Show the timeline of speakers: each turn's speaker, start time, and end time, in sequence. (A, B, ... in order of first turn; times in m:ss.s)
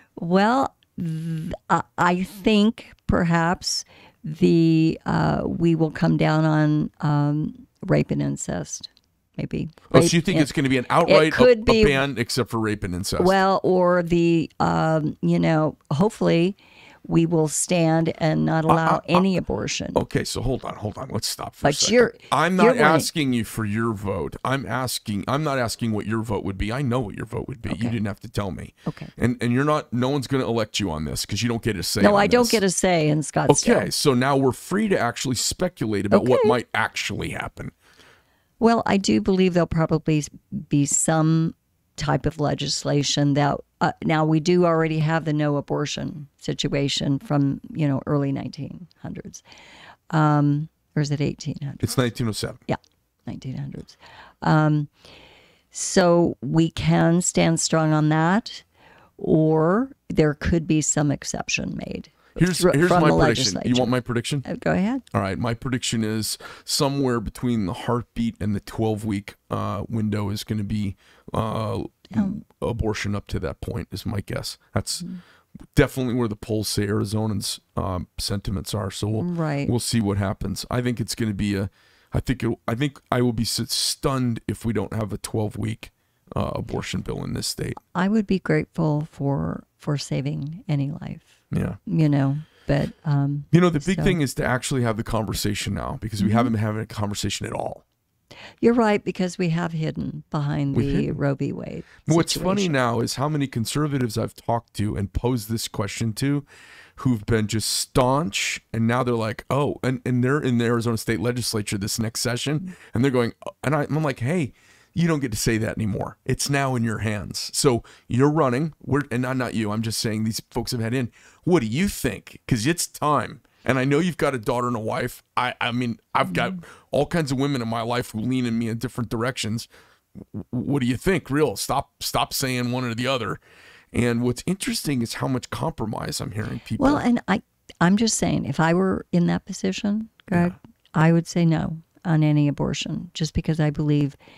0:00.2-0:10.5 A
0:09.9-0:13.4 B
0:11.0-0:12.0 A
0:13.2-0:20.0 A
0:18.7-0:19.3 B
0:20.0-0:32.6 B
0:21.6-0:23.1 A
0:27.7-0:28.0 A
0:28.9-0:29.1 A
0:32.0-0:33.9 A
0:33.5-0:37.7 B
0:36.1-0:36.6 A
0:38.6-0:49.4 A
0:50.1-0:51.9 A
0:51.8-0:52.6 B
0:52.7-0:54.9 A
0:55.7-0:58.6 A
0:59.2-1:05.0 A
1:02.4-1:04.4 B
1:05.1-1:15.1 B
1:15.7-1:27.8 B
1:19.2-1:19.7 A
1:27.9-1:34.2 A
1:31.5-1:31.8 B
1:33.5-1:37.8 B
1:36.2-1:36.5 A
1:38.6-1:42.8 A
1:40.7-1:41.2 B
1:42.1-1:46.4 B
1:47.0-2:13.4 B
2:13.9-2:17.0 B
2:16.8-2:24.2 A